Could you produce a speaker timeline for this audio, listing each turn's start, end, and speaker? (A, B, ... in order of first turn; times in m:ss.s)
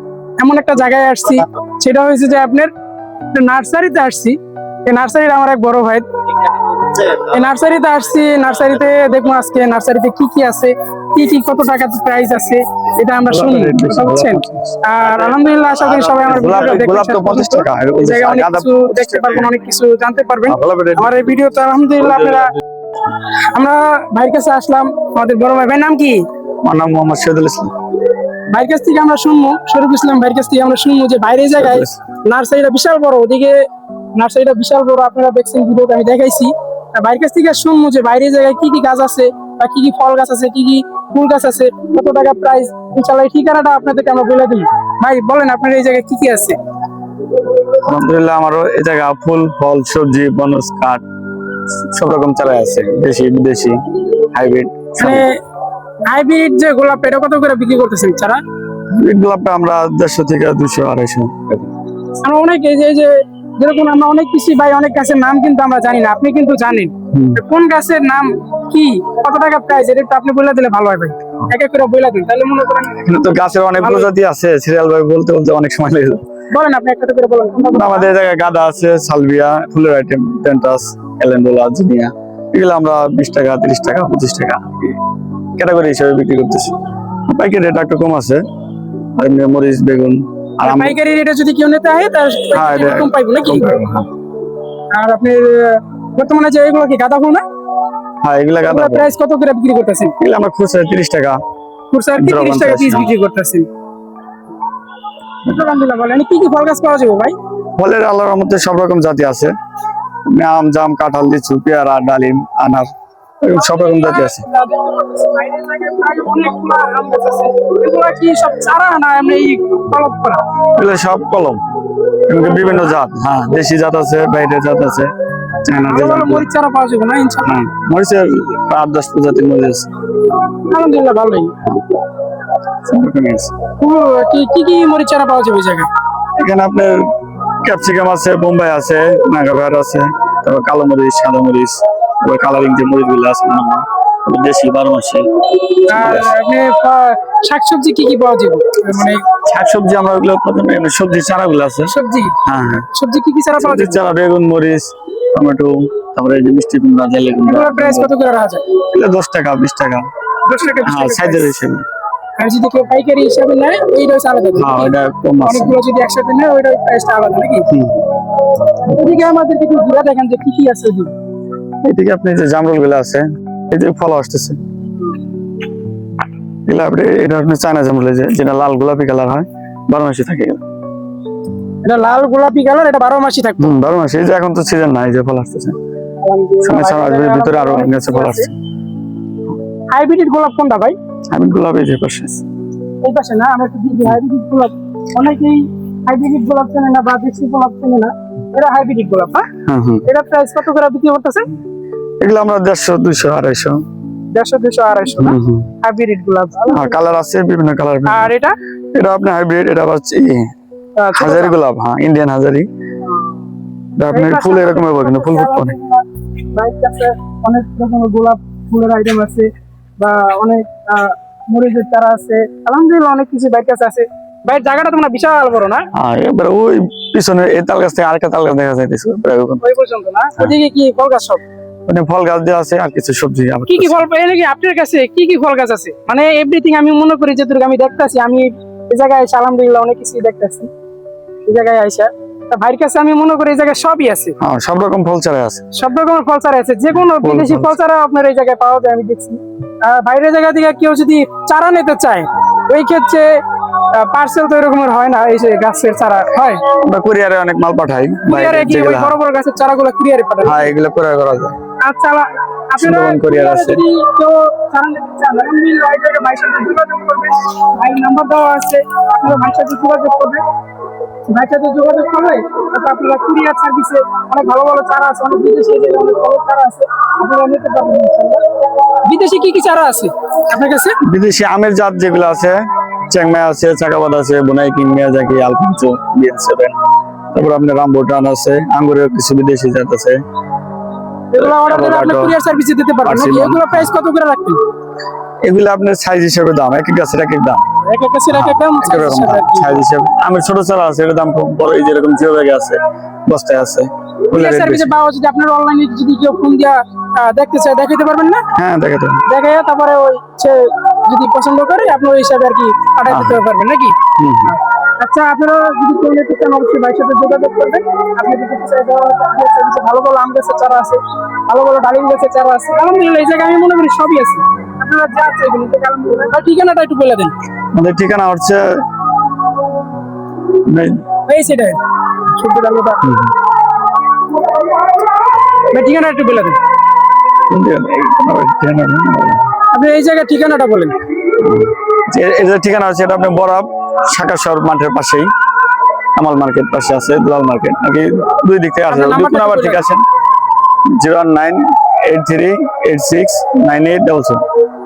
0:00.4-0:02.7 A
0:03.3-0:06.1 A
0:07.0-0:22.5 A
0:13.2-0:14.8 B
0:16.3-0:19.5 B
0:20.5-0:22.4 B
0:23.2-0:26.2 A
0:26.6-0:27.7 B
0:28.5-0:33.6 A
0:31.5-0:32.0 B
0:34.2-0:46.6 A
0:47.7-0:51.0 B
0:51.7-0:55.3 B
0:55.0-0:55.4 A
0:56.1-0:58.4 A
0:58.9-1:01.7 B
1:02.2-1:13.1 A
1:07.1-1:07.4 B
1:13.0-1:16.2 B
1:13.8-1:14.1 A
1:16.5-1:18.1 A
1:17.7-1:25.0 B
1:25.6-1:26.8 B
1:27.3-1:28.4 B
1:29.2-1:31.0 B
1:30.6-1:33.7 A
1:32.5-1:34.1 B
1:34.9-1:37.4 A
1:38.2-1:39.1 B
1:38.7-1:40.2 A
1:40.2-1:41.4 B
1:41.9-1:43.7 A
1:42.2-1:43.1 B
1:45.5-1:47.4 A
1:47.8-1:49.5 B
1:50.3-1:54.5 B
1:53.5-2:00.5 A
2:00.8-2:01.6 B
2:02.3-2:05.1 B
2:02.4-2:02.8 A
2:05.6-2:06.5 B
2:05.7-2:07.6 A
2:07.4-2:09.9 B
2:10.6-2:11.6 A
2:12.8-2:13.6 B
2:13.8-2:15.9 A
2:16.4-2:17.0 B
2:17.6-2:26.3 B
2:25.9-2:29.2 A
2:29.3-2:31.9 B
2:31.9-2:32.4 A
2:32.4-2:32.9 B
2:32.9-2:34.0 A
2:33.6-2:38.1 B
2:37.5-2:38.7 A
2:38.8-2:40.1 B
2:40.4-2:41.5 A
2:40.8-2:41.8 B
2:42.4-2:47.7 A
2:44.6-2:45.8 B
2:47.7-2:48.1 B
2:48.9-2:51.1 A
2:48.9-2:49.2 B
2:51.8-2:54.6 B
2:56.7-3:00.6 B
3:01.8-3:03.8 A
3:03.6-3:05.8 B
3:06.2-3:08.5 A
3:06.6-3:08.5 B
3:09.9-3:11.0 A
3:11.3-3:12.4 B
3:13.0-3:19.5 A
3:19.7-3:20.0 B
3:20.1-3:21.5 A
3:22.2-3:23.8 B
3:24.3-3:27.0 A
3:25.2-3:25.7 B
3:26.7-3:28.3 B
3:28.1-3:28.6 A
3:28.9-3:30.5 B
3:31.0-3:31.6 A
3:31.1-3:32.7 B
3:33.0-3:33.4 A
3:34.0-3:35.8 B
3:34.1-3:39.5 A
3:40.0-3:45.9 A
3:46.0-3:49.6 B
3:49.6-3:51.4 A
3:51.9-3:54.0 B
3:53.7-4:00.7 A
4:01.5-4:04.4 A
4:04.4-4:05.6 B
4:05.7-4:13.4 A
4:07.0-4:07.8 B
4:13.9-4:16.6 A
4:16.7-4:19.2 B
4:18.3-4:20.7 A
4:20.4-4:21.6 B
4:21.8-4:30.4 A
4:22.8-4:23.8 B
4:31.3-4:38.4 A
4:39.0-4:41.0 A
4:41.0-4:42.6 B
4:43.1-4:46.8 B
4:47.3-4:50.2 B
4:51.3-4:54.6 A
4:51.3-4:52.4 B
4:53.0-4:53.9 B
4:55.4-4:57.6 B
4:57.8-4:59.8 A
4:58.3-5:04.9 B
5:04.3-5:08.5 A
5:08.6-5:09.2 B
5:09.3-5:27.3 A
5:13.1-5:13.4 B
5:14.2-5:14.6 B
5:27.7-5:28.6 B
5:30.6-5:31.0 B
5:31.3-5:31.8 A
5:32.3-5:33.0 A
5:33.0-5:33.3 B
5:35.7-5:36.6 A
5:37.5-5:39.4 B
5:39.7-5:41.0 A
5:41.4-5:45.3 B
5:46.2-5:50.0 B
5:48.9-5:49.8 A
5:51.0-5:54.4 B